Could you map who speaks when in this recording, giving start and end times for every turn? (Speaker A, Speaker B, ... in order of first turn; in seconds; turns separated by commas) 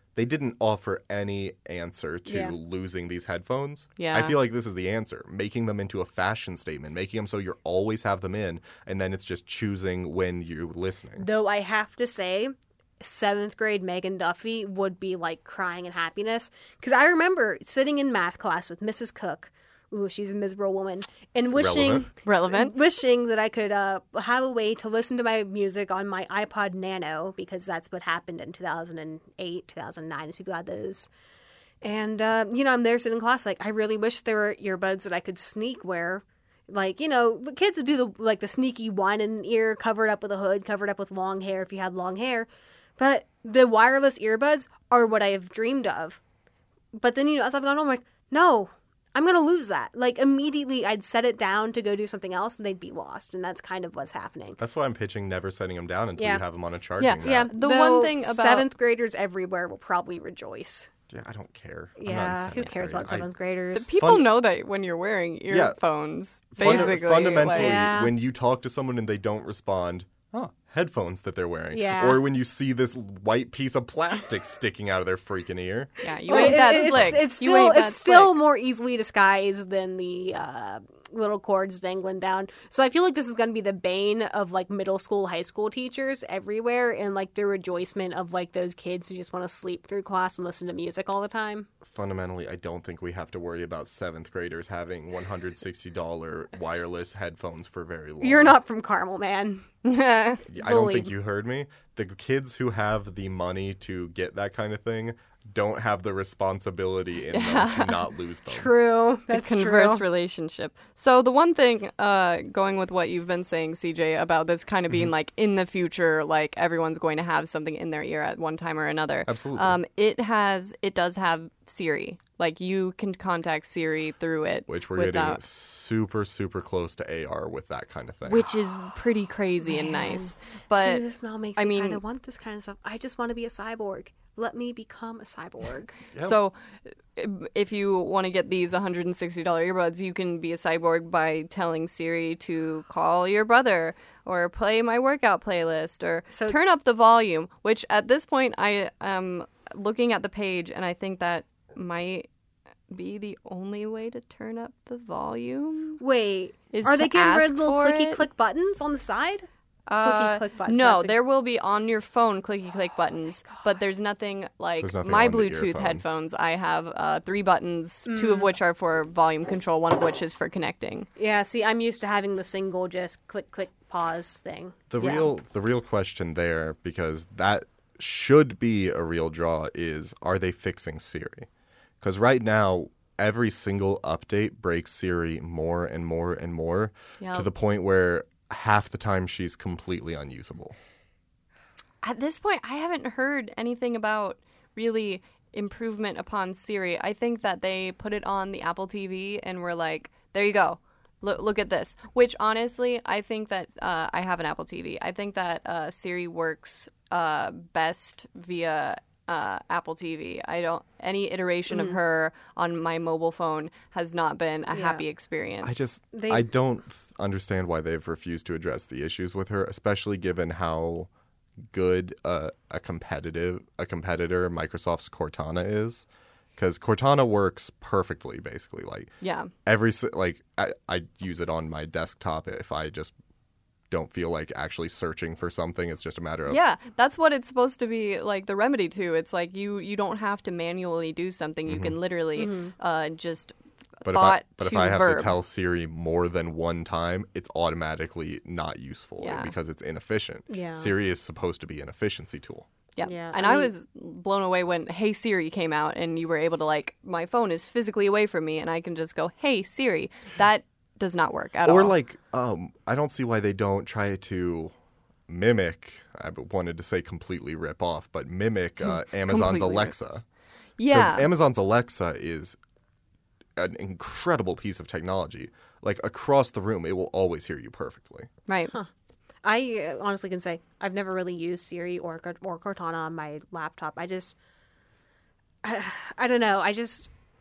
Speaker A: 0.1-11.3, Speaker B: 2.3-2.5, Speaker C: 4.0-4.4, Speaker B: 11.2-31.1, Speaker A: 21.5-22.1, Speaker C: 22.2-22.8, Speaker B: 31.8-46.2, Speaker B: 46.9-54.6, Speaker A: 54.6-57.5, Speaker B: 56.2-56.4, Speaker C: 57.0-58.7, Speaker B: 57.2-60.9, Speaker A: 61.1-63.3, Speaker B: 62.0-63.9, Speaker C: 63.8-67.8, Speaker A: 64.0-64.2, Speaker A: 65.5-65.8, Speaker A: 66.6-77.2, Speaker B: 66.6-68.1, Speaker B: 71.7-72.2, Speaker C: 76.0-78.4, Speaker B: 76.3-91.7, Speaker A: 91.8-98.5, Speaker B: 98.2-99.7, Speaker C: 99.8-100.4, Speaker A: 100.5-108.7, Speaker B: 100.6-101.1, Speaker C: 107.3-108.1, Speaker B: 108.5-110.0, Speaker C: 109.3-125.4, Speaker A: 119.3-119.8, Speaker A: 124.7-128.5, Speaker C: 128.3-131.1, Speaker B: 129.7-136.0, Speaker C: 131.6-132.0, Speaker C: 136.2-136.6, Speaker C: 137.2-152.3, Speaker B: 146.3-146.6, Speaker C: 152.9-156.0, Speaker B: 156.0-159.5, Speaker C: 156.7-158.2, Speaker C: 159.9-171.1, Speaker B: 160.0-161.2, Speaker A: 164.8-166.1, Speaker B: 168.1-168.5, Speaker B: 171.2-175.2, Speaker A: 174.9-181.5, Speaker C: 175.0-175.3, Speaker A: 182.0-190.8, Speaker C: 187.2-187.5, Speaker C: 192.0-215.8, Speaker B: 211.7-212.0, Speaker B: 214.7-215.0, Speaker A: 215.6-221.1, Speaker B: 216.1-216.5, Speaker A: 221.7-226.1, Speaker A: 226.6-229.1, Speaker C: 229.2-229.5, Speaker A: 229.7-233.1, Speaker A: 233.9-236.6, Speaker C: 236.5-245.3, Speaker A: 241.7-242.0, Speaker B: 242.4-242.7, Speaker A: 244.0-252.7, Speaker C: 249.2-249.6, Speaker B: 250.5-250.9, Speaker C: 253.0-261.9, Speaker B: 253.0-253.7, Speaker A: 261.7-264.7, Speaker A: 265.3-270.2, Speaker C: 268.8-269.9, Speaker C: 270.8-271.3, Speaker A: 270.9-272.6, Speaker A: 273.6-278.3, Speaker C: 278.5-278.7, Speaker B: 279.4-284.3, Speaker B: 285.6-287.1